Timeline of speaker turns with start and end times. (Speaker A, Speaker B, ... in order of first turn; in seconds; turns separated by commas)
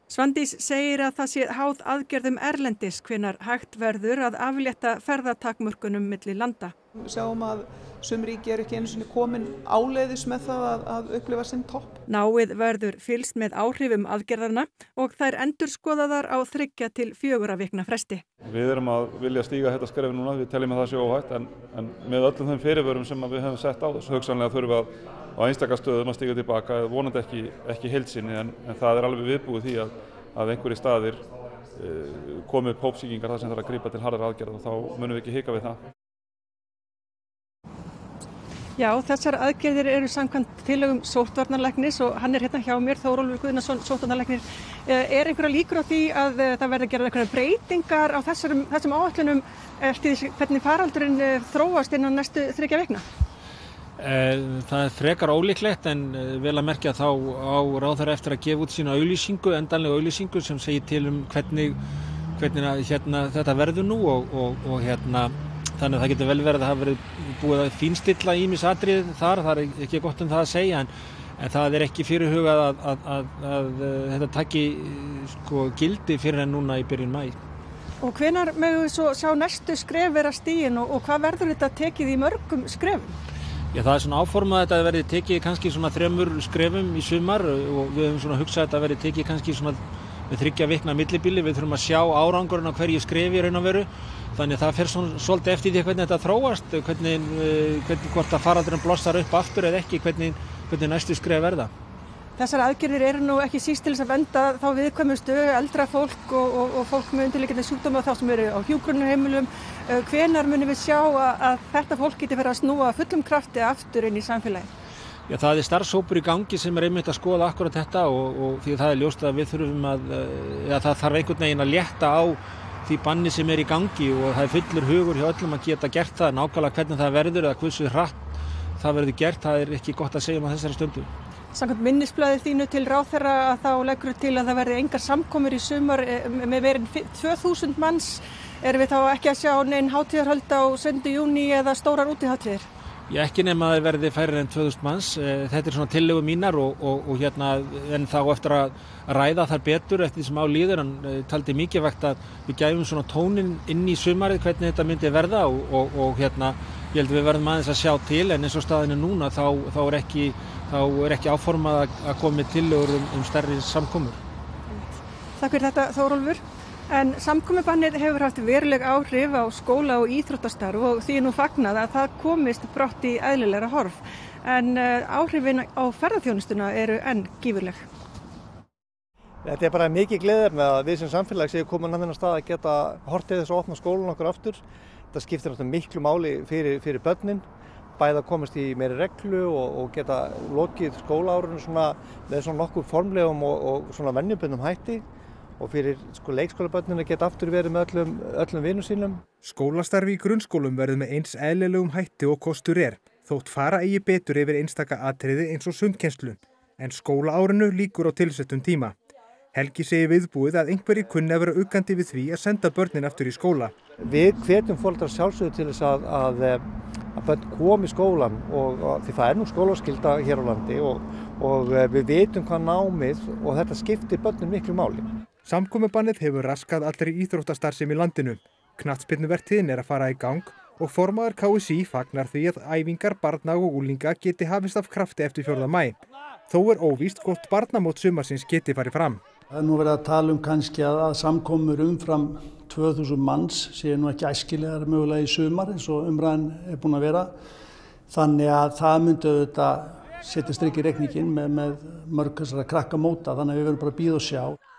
Speaker A: 0.1-6.7, Speaker B: 6.9-12.0, Speaker A: 12.1-18.2, Speaker C: 18.5-35.8, Speaker A: 38.8-53.0, Speaker D: 54.0-61.8, Speaker D: 62.4-77.4, Speaker A: 78.0-83.2, Speaker D: 83.7-101.7, Speaker A: 102.4-114.7, Speaker D: 115.3-128.2, Speaker D: 128.8-131.1, Speaker A: 131.5-142.7, Speaker D: 143.1-164.2, Speaker A: 164.7-177.8, Speaker E: 179.4-187.4, Speaker E: 188.0-195.0, Speaker E: 195.6-199.2, Speaker F: 199.4-208.9, Speaker F: 209.5-213.8, Speaker E: 213.9-225.1, Speaker F: 225.4-239.2, Speaker G: 239.5-247.3, Speaker G: 248.1-254.6